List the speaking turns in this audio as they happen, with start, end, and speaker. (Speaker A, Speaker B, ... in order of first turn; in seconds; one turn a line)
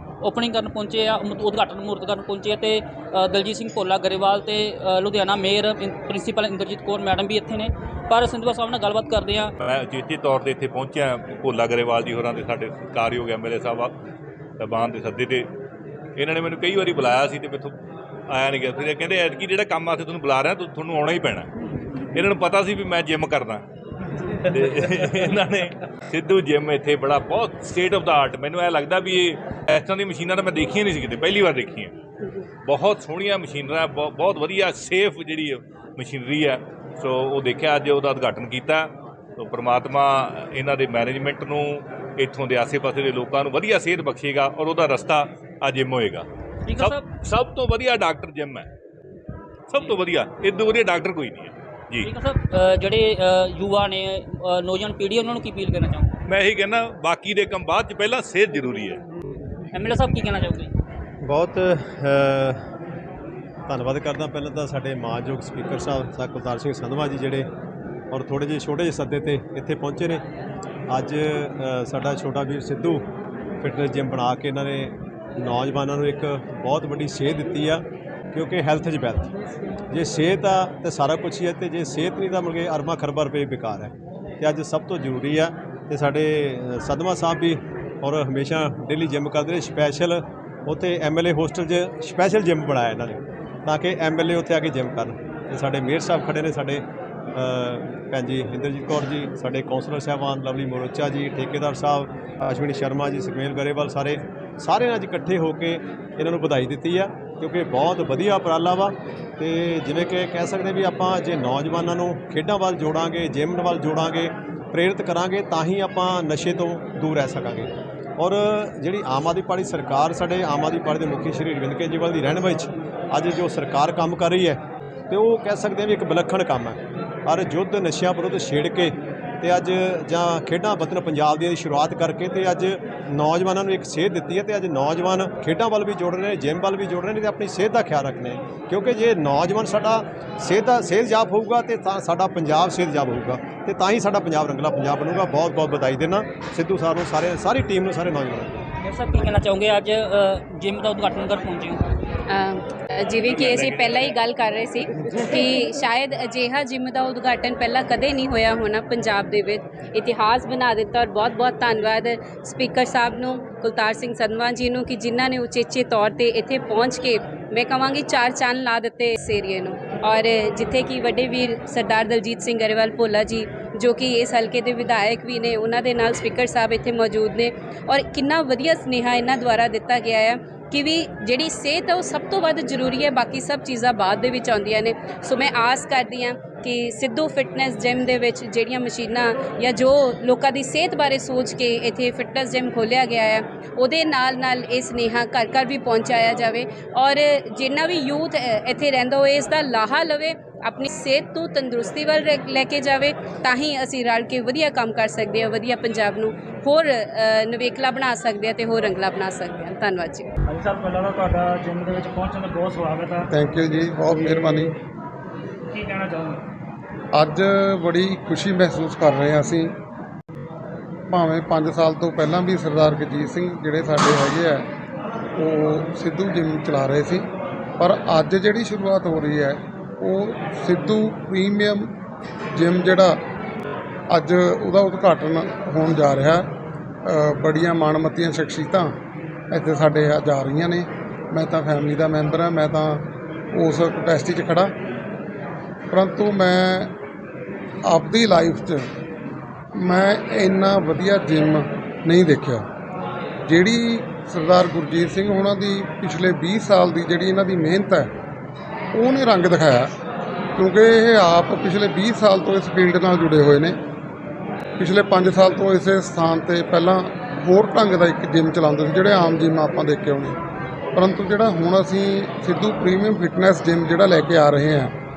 Speaker A: 0.2-9.5
Speaker B: 9.6-13.9
Speaker B: 14.6-15.5
Speaker B: 16.2-17.7
Speaker B: 18.3-21.5
Speaker B: 22.1-23.6
Speaker B: 24.5-31.9
Speaker B: 32.6-46.2
Speaker A: 46.7-47.1
Speaker B: 46.8-48.7
Speaker B: 49.7-52.1
Speaker A: 52.0-56.1
Speaker B: 56.3-59.0
Speaker A: 59.7-60.7
Speaker C: 61.2-62.6
Speaker C: 63.7-67.5
Speaker C: 68.1-70.2
Speaker C: 70.9-73.0
Speaker C: 73.6-79.3
Speaker C: 79.9-148.6
Speaker A: 148.8-151.8
Speaker D: 152.3-210.3
Speaker B: 153.3-154.1
Speaker E: 210.5-213.3
Speaker F: 213.3-214.7
Speaker E: 214.1-214.5
Speaker E: 215.7-216.4
Speaker F: 217.1-219.7
Speaker F: 221.1-224.7
Speaker F: 225.4-227.2
Speaker F: 227.8-231.9
Speaker F: 232.5-233.2
Speaker F: 234.1-236.4
Speaker F: 237.0-238.9
Speaker F: 239.5-244.7
Speaker F: 245.9-246.9
Speaker F: 247.8-248.8
Speaker F: 249.8-252.6
Speaker F: 253.5-258.1
Speaker F: 258.9-259.9
Speaker F: 260.6-263.8
Speaker F: 264.8-270.4
Speaker F: 270.9-274.9